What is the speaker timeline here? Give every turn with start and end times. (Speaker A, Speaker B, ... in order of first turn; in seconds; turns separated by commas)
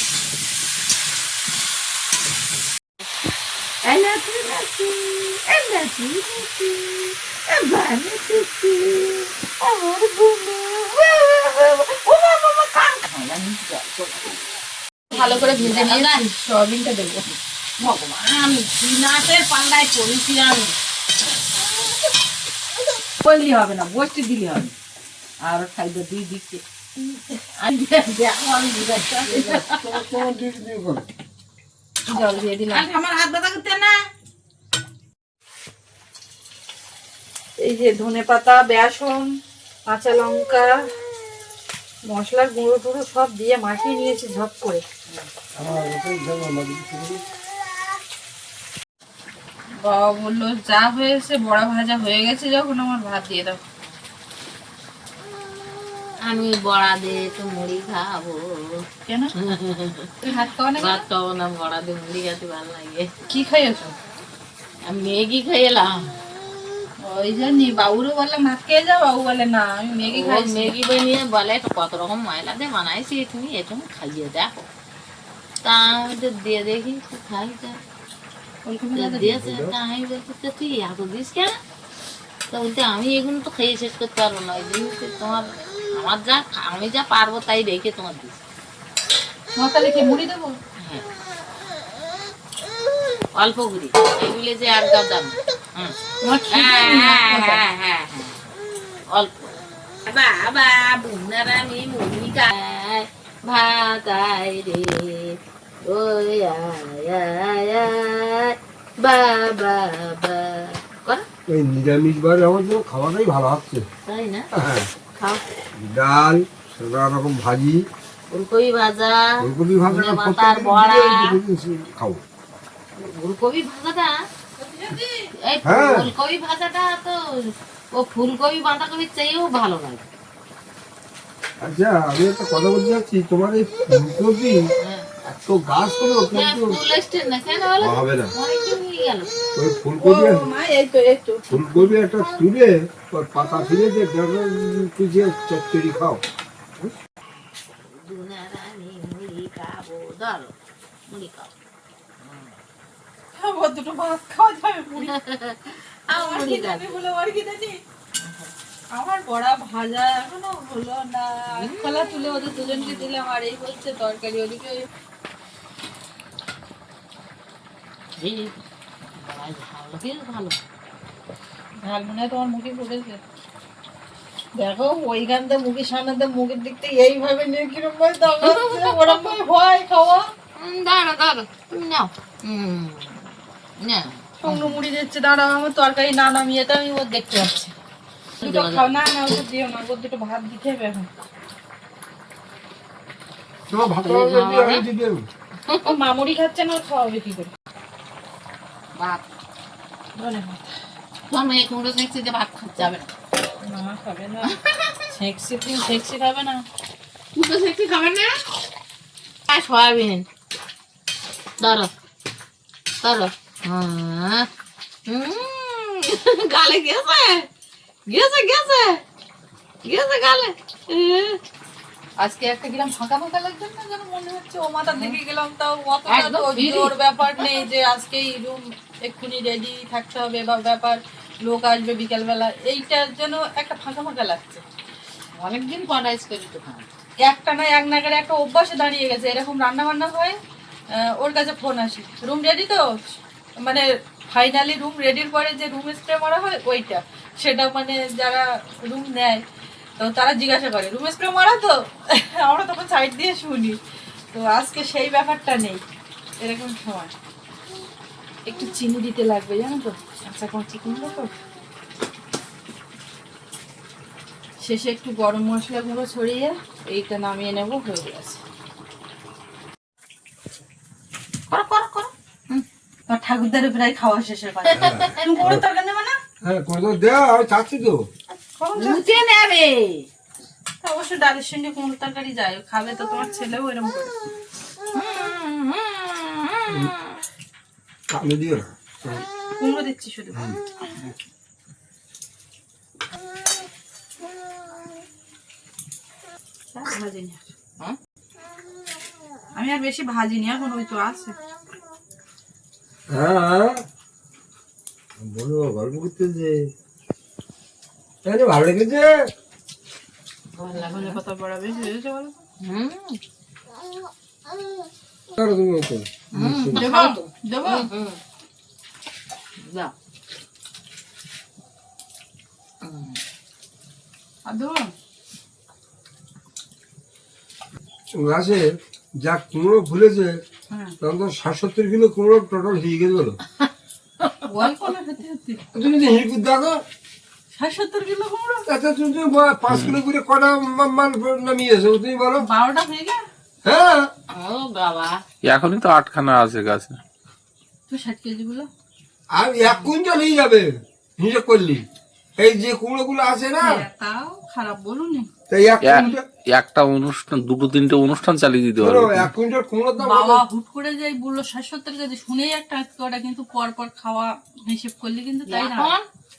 Speaker A: 3.8-14.5, Speaker A: 15.1-16.2, Speaker B: 15.1-17.2, Speaker A: 17.8-20.7, Speaker A: 23.2-24.7, Speaker A: 25.4-30.0, Speaker C: 29.3-31.1, Speaker B: 32.1-32.9, Speaker A: 32.7-34.0, Speaker B: 37.6-39.3, Speaker B: 39.9-40.7, Speaker B: 42.1-44.8, Speaker C: 45.6-47.2, Speaker B: 49.8-53.6, Speaker A: 56.2-58.8, Speaker B: 59.1-59.3, Speaker A: 59.4-60.1, Speaker B: 60.2-61.0, Speaker A: 60.8-63.1, Speaker B: 63.3-63.9, Speaker A: 64.9-66.1, Speaker B: 67.0-70.8, Speaker A: 70.1-74.5, Speaker A: 75.6-77.8, Speaker B: 78.7-79.3, Speaker A: 79.0-81.5, Speaker C: 79.2-79.8, Speaker A: 82.5-88.4, Speaker B: 89.6-90.6, Speaker A: 90.8-91.0, Speaker A: 93.3-96.0, Speaker B: 96.2-97.6, Speaker A: 96.5-98.4, Speaker A: 99.1-111.2, Speaker C: 111.5-113.9, Speaker A: 114.1-114.5, Speaker C: 114.5-114.9, Speaker C: 115.8-117.8, Speaker A: 118.3-121.4, Speaker C: 119.4-122.2, Speaker A: 123.0-124.2, Speaker B: 124.6-125.3, Speaker A: 125.4-130.1, Speaker C: 125.6-126.1, Speaker C: 131.6-134.6, Speaker A: 134.8-135.1, Speaker C: 135.2-136.8, Speaker A: 136.3-139.3, Speaker C: 137.8-138.3, Speaker C: 139.6-140.4, Speaker B: 140.0-141.9, Speaker C: 141.5-146.2, Speaker A: 147.8-150.5, Speaker A: 151.1-151.5, Speaker A: 152.2-152.5, Speaker B: 153.3-155.2, Speaker A: 155.0-156.9, Speaker B: 156.1-157.8, Speaker A: 158.2-158.5, Speaker B: 158.9-164.9, Speaker A: 161.6-163.0, Speaker A: 168.2-168.5, Speaker A: 169.0-170.6, Speaker B: 171.8-173.2, Speaker B: 174.6-180.3, Speaker A: 178.4-179.4, Speaker A: 180.6-184.8, Speaker B: 184.4-187.7, Speaker A: 188.4-188.9, Speaker B: 188.4-191.1, Speaker C: 193.7-195.3, Speaker A: 194.0-194.8, Speaker A: 195.7-195.9, Speaker B: 195.8-197.5, Speaker A: 199.0-199.2, Speaker B: 200.2-200.8, Speaker A: 201.3-203.1, Speaker B: 203.6-204.6, Speaker A: 204.5-205.1, Speaker B: 205.1-206.6, Speaker A: 207.3-208.5, Speaker A: 209.5-210.2, Speaker A: 211.6-211.9, Speaker A: 213.0-214.5, Speaker A: 215.1-217.5, Speaker A: 218.1-219.0, Speaker A: 219.8-221.4, Speaker B: 222.2-234.6, Speaker A: 224.9-225.2, Speaker A: 226.1-227.4, Speaker A: 235.4-236.9, Speaker B: 237.2-240.4, Speaker B: 241.0-242.9, Speaker B: 243.6-249.4, Speaker B: 250.0-253.8, Speaker B: 254.3-255.8, Speaker B: 256.4-257.1, Speaker B: 258.5-261.3, Speaker B: 264.6-268.4, Speaker A: 271.5-272.7, Speaker B: 273.1-276.2, Speaker A: 274.7-275.6, Speaker C: 274.8-275.6, Speaker C: 276.4-278.1, Speaker B: 278.4-279.2, Speaker A: 278.8-280.1, Speaker B: 280.8-284.1, Speaker A: 284.9-287.2, Speaker C: 286.7-286.9, Speaker C: 288.1-289.3, Speaker B: 289.6-290.6, Speaker B: 296.7-297.5, Speaker B: 299.6-301.4, Speaker C: 303.1-303.8, Speaker C: 305.2-306.7, Speaker C: 308.2-309.1, Speaker A: 310.5-311.2, Speaker B: 310.7-312.4, Speaker A: 312.6-313.2, Speaker C: 315.3-316.9, Speaker A: 316.3-318.2, Speaker B: 316.8-317.9, Speaker A: 319.6-319.9, Speaker A: 322.8-323.2, Speaker B: 324.5-324.9, Speaker C: 328.2-330.4, Speaker B: 330.7-330.9, Speaker C: 331.0-333.4, Speaker A: 334.2-334.7, Speaker B: 334.5-335.6, Speaker C: 335.7-336.8, Speaker B: 337.5-338.6, Speaker C: 338.6-342.5, Speaker D: 339.7-340.0, Speaker B: 342.4-343.2, Speaker C: 343.6-344.1, Speaker A: 344.3-345.2, Speaker D: 345.4-347.0, Speaker B: 347.9-348.7, Speaker C: 349.3-351.8, Speaker C: 352.4-353.8, Speaker B: 353.6-355.3, Speaker C: 355.5-356.2, Speaker D: 355.8-359.3, Speaker C: 358.8-360.4, Speaker B: 360.0-365.9, Speaker A: 365.5-366.1